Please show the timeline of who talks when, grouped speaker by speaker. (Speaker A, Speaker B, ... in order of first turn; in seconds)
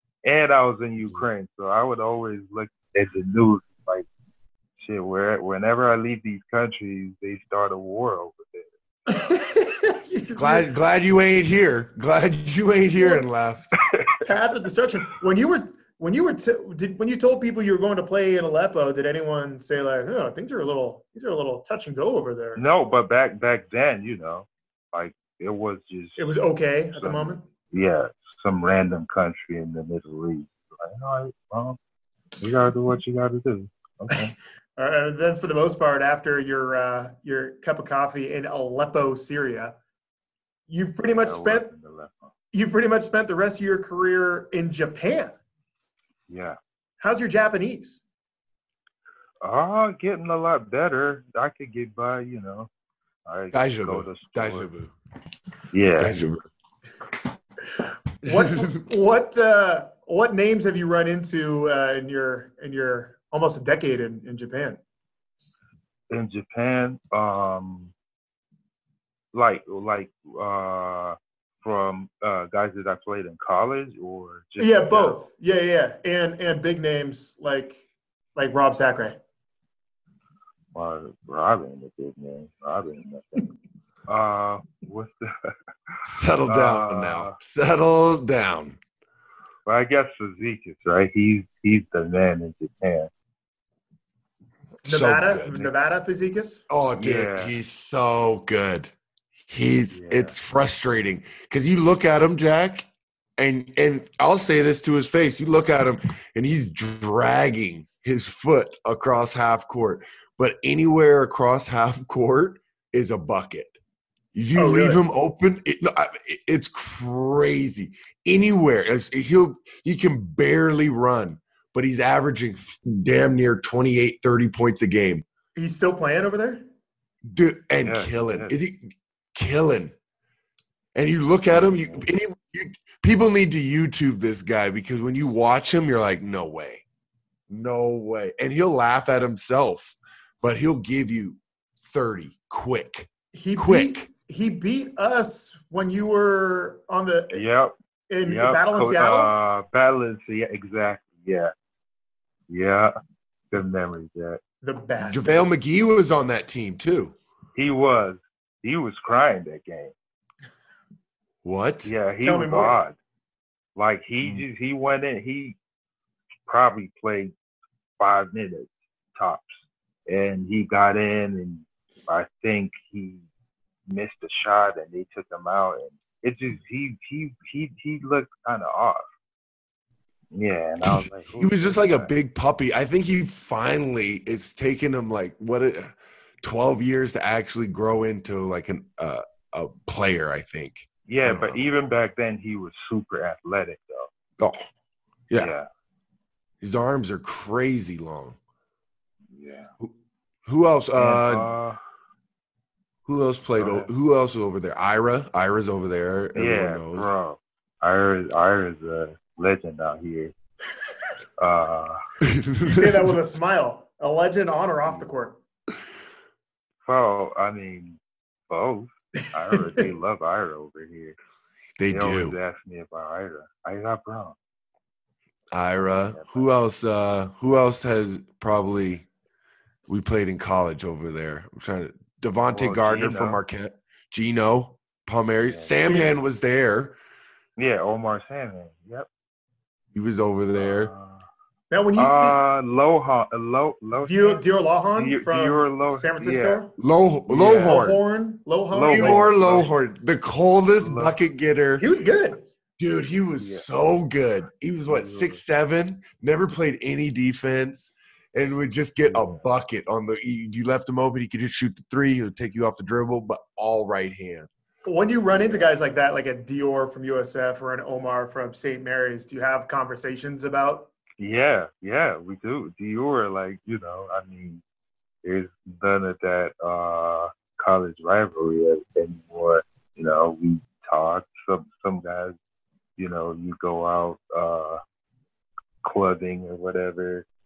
Speaker A: 0.2-4.1, 4.8-8.7, 13.9-14.2, 22.6-26.3, 26.9-31.8, 32.4-34.3, 41.2-42.3, 46.3-46.6, 49.4-52.7, 53.2-54.7, 55.7-56.1, 66.1-67.9, 69.3-75.2, 80.7-83.5, 84.1-85.5, 86.5-87.3, 89.7-93.1, 97.0-97.5, 99.9-100.3, 127.8-128.5, 131.5-132.1, 147.3-151.5, 152.5-152.9, 153.5-154.4, 157.5-159.9, 161.8-162.9, 163.8-165.6, 166.5-167.3, 168.0-173.2, 173.9-179.0, 180.3-182.1, 191.1-194.1, 195.4-195.7, 199.3-199.7, 201.0-201.8, 203.6-203.9, 206.3-210.3, 211.4-212.0, 216.8-218.0, 218.5-221.2, 221.9-224.3, 226.1-226.5, 232.5-233.4, 235.5-235.7, 237.6-239.1, 240.6-241.2, 241.9-244.4, 244.9-246.6, 248.7-249.7, 250.8-251.2, 253.4-253.7, 254.9-255.4, 259.1-259.4, 265.3-265.7, 271.2-274.6, 275.2-282.3, 283.0-284.8, 285.8-287.2
Speaker B: 9.1-10.7, 13.0-13.2, 14.2-22.6, 26.2-27.4, 34.8-39.8, 40.7-41.7, 42.5-45.3, 47.0-48.0, 58.2-64.8, 74.6-77.8, 78.3-79.2, 94.8-96.6, 114.5-115.0, 125.5-126.6, 143.3-147.4, 148.1-149.3, 154.6-155.4, 162.2-162.8, 212.6-215.4, 241.7-242.4, 244.0-246.7, 247.3-249.6, 251.8-252.4, 264.8-270.9
Speaker C: 10.3-13.7, 53.5-54.9, 56.0-56.4, 58.2-58.7, 86.0-88.8, 94.8-95.7, 96.7-98.9, 99.5-113.8, 114.3-125.2, 127.3-129.9, 130.9-136.8, 137.5-144.1, 155.0-157.1, 161.4-161.9, 180.8-191.7, 194.4-194.7, 196.6-198.3, 200.4-201.5, 203.1-207.1, 212.2-213.2, 221.8-222.4, 225.5-229.1, 229.9-237.0, 239.9-240.9, 246.8-248.0, 248.9-251.8, 252.8-264.5